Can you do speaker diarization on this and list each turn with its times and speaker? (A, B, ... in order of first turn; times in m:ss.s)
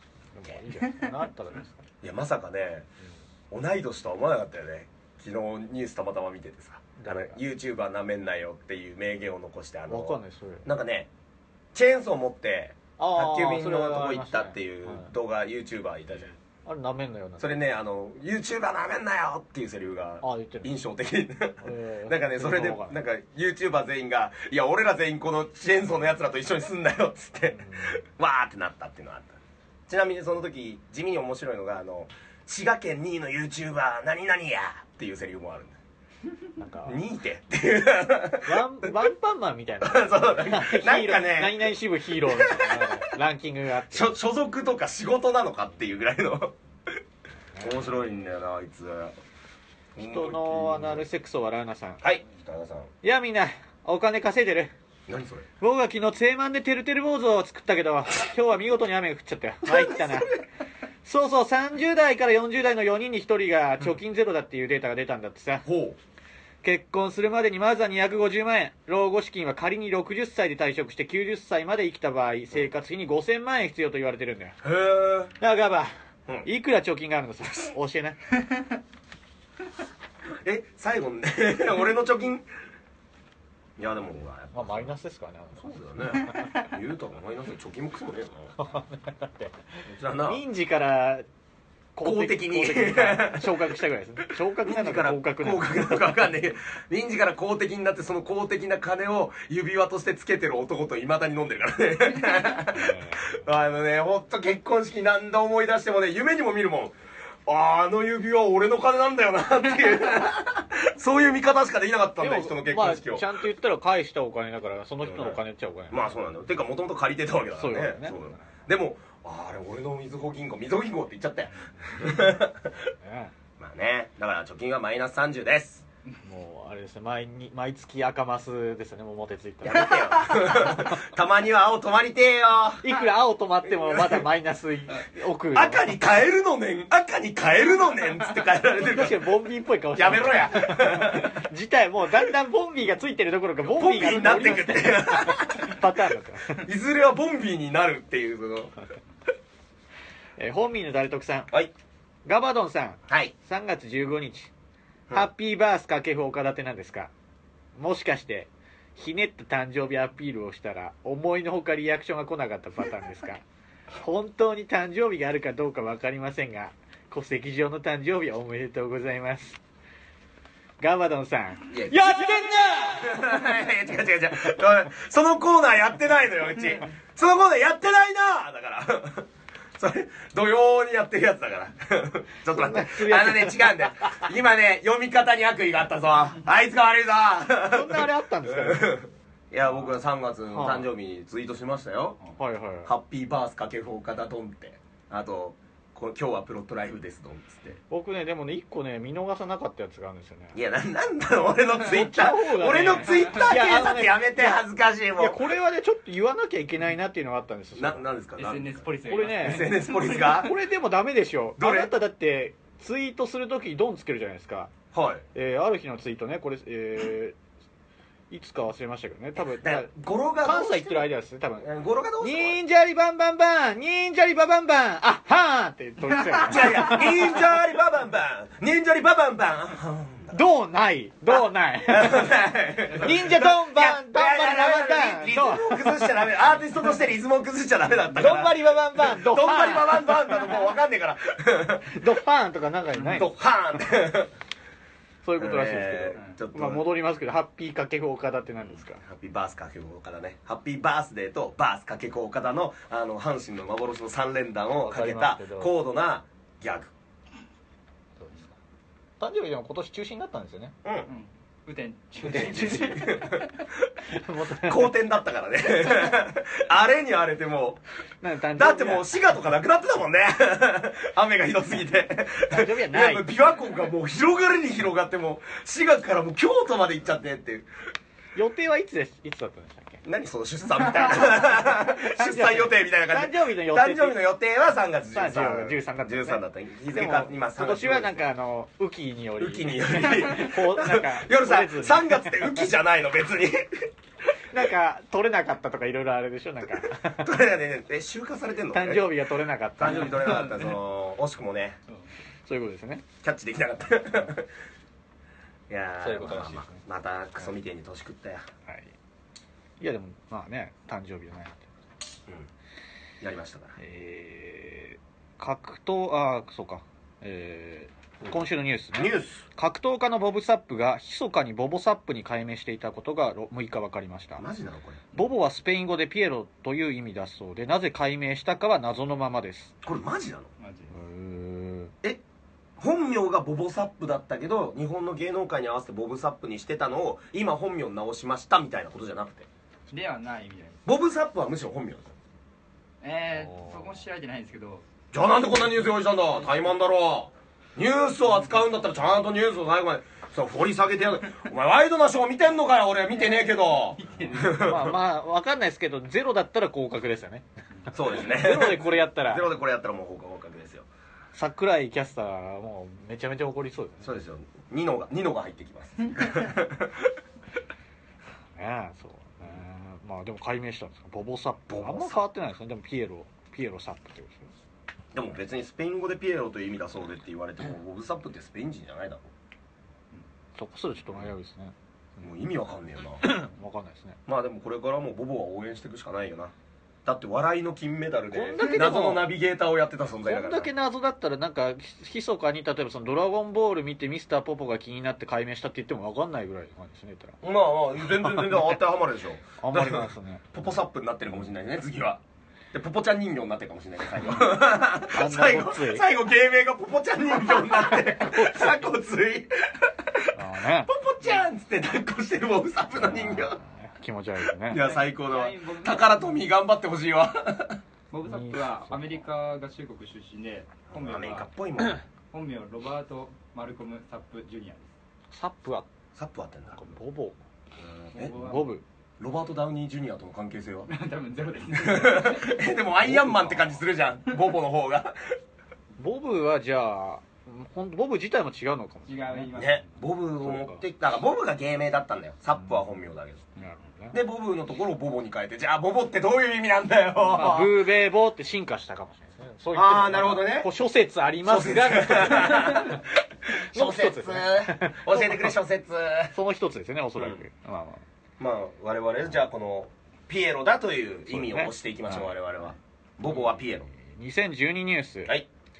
0:00.3-0:01.8 A
0:02.0-0:02.9 B
0:03.5-0:11.1 B
0:07.0-0:07.4 A
0:09.9-0:10.7 A
0:11.7-0:16.3 B
0:13.0-0:15.1 A
0:16.6-0:17.6 A
0:17.4-0:35.8 B
0:20.2-0:20.7 A
0:21.6-0:23.0 A
0:27.5-0:28.0 A
0:36.6-0:37.0 A
0:36.8-0:38.9 B
0:38.4-0:44.1 A
0:39.8-0:43.0 B
0:43.9-0:47.0 B
0:47.5-0:47.9 A
0:47.6-0:49.2 B
0:50.0-0:51.0 B
0:50.0-0:52.0 A
0:52.0-0:52.9 B
0:53.0-0:54.7 A
0:55.1-0:55.4 B
0:55.6-1:00.4 A
0:59.7-1:00.4 B
1:01.0-1:05.6 A
1:05.6-1:06.0 B
1:06.6-1:14.6 A
1:14.6-1:15.3 B
1:15.4-1:15.9 A
1:16.4-1:18.4 A
1:20.4-1:22.4 B
1:23.8-1:24.9 B
1:24.5-1:26.5 A
1:25.6-1:28.5 B
1:28.6-1:29.6 A
1:29.9-1:30.4 B
1:30.2-1:31.2 A
1:32.0-1:36.1 A
1:32.0-1:33.8 B
1:34.6-1:46.9 B
1:42.7-1:43.4 A
1:47.4-1:53.3 B
1:52.2-1:56.1 A
1:55.0-2:02.9 B
1:57.6-1:58.5 A
2:03.0-2:03.3 A
2:03.6-2:05.8 B
2:06.2-2:10.9 A
2:09.6-2:13.0 B
2:12.8-2:15.9 A
2:13.7-2:14.2 B
2:15.5-2:19.3 B
2:18.8-2:26.6 A
2:19.9-2:21.4 B
2:23.6-2:25.9 B
2:26.5-2:28.8 B
2:30.4-2:31.5 A
2:32.2-2:34.5 A
2:33.1-2:33.3 B
2:35.1-2:37.1 A
2:37.8-2:43.4 A
2:44.0-2:49.6 A
2:50.8-2:53.5 A
2:51.7-3:12.2 B
3:02.5-3:04.2 A
3:07.7-3:09.0 A
3:10.5-3:10.9 A
3:12.4-3:12.9 A
3:12.8-3:17.8 B
3:17.9-3:20.6 A
3:20.5-3:25.4 B
3:21.8-3:24.6 A
3:25.2-3:28.0 A
3:27.7-3:30.5 B
3:28.4-3:30.4 C
3:29.0-3:34.7 A
3:31.6-3:31.9 B
3:34.9-3:35.2 B
3:35.3-3:37.4 A
3:38.3-3:39.9 A
3:39.4-3:41.1 B
3:40.4-3:41.7 A
3:41.6-3:42.6 B
3:42.2-3:47.4 A
3:46.4-3:50.4 B
3:50.3-3:52.3 A
3:51.3-4:02.0 B
3:52.9-3:53.2 C
3:53.0-3:56.1 A
3:58.1-4:00.5 A
4:01.9-4:03.3 A
4:03.1-4:04.3 B
4:05.2-4:09.0 A
4:05.4-4:06.8 B
4:09.0-4:16.9 B
4:14.8-4:15.7 A
4:18.2-4:18.5 C
4:19.2-4:20.7 A
4:20.8-4:21.1 B
4:21.1-4:23.5 C
4:22.2-4:23.2 A
4:22.3-4:23.9 B
4:24.1-4:24.9 A
4:24.6-4:27.8 B
4:28.2-4:29.1 A
4:28.5-4:37.7 B
4:32.4-4:33.3 A
4:38.3-4:40.0 A
4:40.0-4:48.2 B
4:41.1-4:44.2 A
4:45.1-4:52.5 A
4:49.4-4:53.9 B
4:54.5-4:57.3 A
4:56.8-4:59.2 B
4:58.7-5:00.5 A
4:59.8-5:01.8 B
5:00.1-5:00.7 C
5:02.4-5:03.0 A
5:03.2-5:04.5 B
5:05.7-5:08.4 B
5:06.0-5:06.8 A
5:08.7-5:08.9 A
5:09.8-5:11.7 A
5:13.2-5:13.8 B
5:13.8-5:24.4 A
5:18.9-5:19.4 B
5:24.4-5:25.0 B
5:25.1-5:29.8 A
5:29.8-5:30.5 B
5:30.6-5:30.9 C
5:30.9-5:31.9 A
5:32.8-5:39.5 B
5:39.9-5:40.8 C
5:40.8-5:42.1 B
5:43.0-5:44.8 C
5:43.4-5:43.8 A
5:45.1-5:55.0 B
5:53.2-5:54.7 C
5:54.4-5:57.4 A
5:57.9-6:00.9 B
5:58.0-5:59.5 A
6:01.3-6:04.2 A
6:04.0-6:07.1 B
6:08.6-6:14.5 A
6:11.7-6:12.2 B
6:15.1-6:19.3 B
6:20.6-6:21.7 A
6:22.2-6:23.4 B
6:23.2-6:24.2 A
6:24.3-6:26.5 B
6:27.0-6:30.7 B
6:28.3-6:29.3 A
6:30.2-6:37.4 A
6:37.4-6:50.3 B
6:38.1-6:38.7 A
6:39.6-6:40.5 A
6:45.1-6:46.1 A
6:47.6-6:48.8 A
6:50.3-6:50.9 A
6:50.8-6:53.6 B
6:53.0-6:54.8 A
6:54.6-6:57.8 B
6:54.7-6:56.3 C
6:58.1-7:01.5 C
6:58.2-6:59.2 A
7:00.9-7:02.0 B
7:02.3-7:04.9 C
7:05.3-7:05.9 A
7:06.1-7:06.8 B
7:06.7-7:07.4 A
7:07.8-7:08.3 B
7:08.1-7:08.7 C
7:08.2-7:08.8 A
7:09.2-7:10.9 B
7:10.9-7:12.7 C
7:11.7-7:15.2 B
7:13.0-7:13.7 A
7:16.0-7:19.5 A
7:19.1-7:19.8 C
7:19.5-7:23.4 B
7:20.4-7:20.8 A
7:23.6-7:24.2 A
7:24.1-7:27.9 B
7:27.3-7:35.5 A
7:29.7-7:30.7 B
7:31.4-7:36.3 B
7:36.3-7:38.0 A
7:37.2-7:37.4 B
7:38.4-7:43.9 B
7:41.3-7:42.3 A
7:43.3-7:45.4 A